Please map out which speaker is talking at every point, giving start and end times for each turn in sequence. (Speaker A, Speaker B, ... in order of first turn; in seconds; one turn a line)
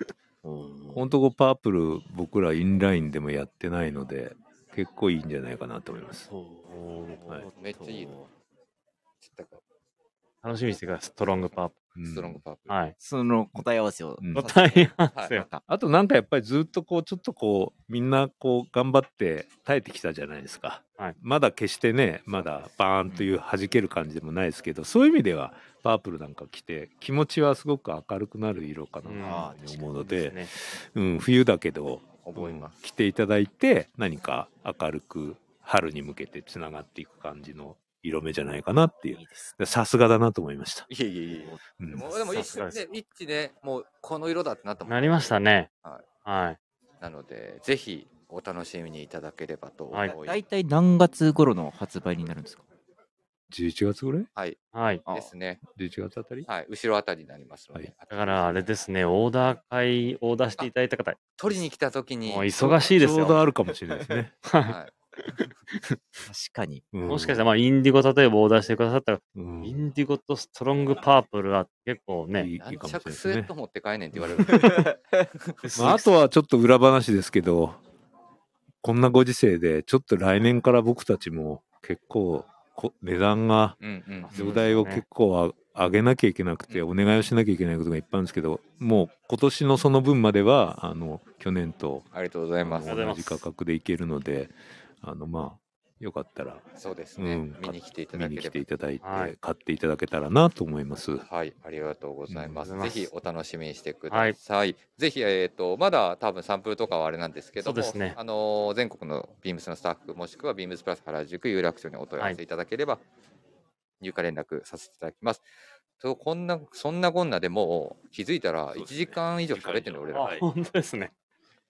Speaker A: 0.4-1.1
Speaker B: 0.9-6.3
Speaker A: 6.3-8.3
Speaker C: 6.7-7.2
Speaker D: 7.5-8.2
Speaker D: 9.2-9.6
Speaker C: 10.4-11.7
Speaker B: 11.9-12.4
Speaker D: 12.0-12.7
Speaker C: 12.7-12.9
Speaker A: 13.0-15.6
Speaker B: 14.2-14.5
Speaker C: 14.3-15.4
Speaker B: 15.7-40.9
Speaker D: 22.3-22.6
Speaker C: 29.0-29.5
Speaker A: 29.2-30.0
Speaker C: 30.0-30.5
Speaker D: 32.2-32.8
Speaker A: 39.1-39.5
Speaker D: 40.9-45.3
Speaker A: 41.3-41.6
Speaker B: 41.8-42.1
Speaker C: 42.3-42.8
Speaker C: 44.9-45.7
Speaker C: 46.2-46.6
Speaker D: 47.0-50.4
Speaker A: 50.1-52.6
Speaker B: 53.5-54.3
Speaker D: 54.4-55.6
Speaker C: 54.7-55.0
Speaker B: 55.7-56.5
Speaker D: 56.5-58.7
Speaker C: 58.1-61.2
Speaker D: 61.4-62.5
Speaker C: 62.3-63.4
Speaker B: 62.6-64.3
Speaker C: 64.4-64.8
Speaker D: 64.6-64.9
Speaker C: 65.3-66.0
Speaker A: 66.2-66.9
Speaker B: 66.9-67.4
Speaker C: 67.0-72.5
Speaker B: 69.3-69.8
Speaker B: 72.3-73.5
Speaker D: 72.6-74.9
Speaker B: 74.1-74.7
Speaker A: 74.5-75.3
Speaker D: 75.4-75.9
Speaker C: 75.6-76.1
Speaker B: 75.8-77.8
Speaker B: 78.8-83.8
Speaker D: 83.8-84.3
Speaker C: 84.2-85.0
Speaker B: 84.3-92.1
Speaker D: 92.1-92.9
Speaker B: 92.6-96.6
Speaker C: 92.8-93.4
Speaker D: 96.8-98.6
Speaker B: 97.2-101.2
Speaker C: 99.0-99.3
Speaker D: 101.2-113.0
Speaker B: 102.3-102.7
Speaker C: 102.6-103.1
Speaker C: 104.1-104.3
Speaker C: 107.6-108.2
Speaker D: 114.0-115.4
Speaker D: 116.0-120.3
Speaker B: 118.7-120.4
Speaker C: 120.1-121.1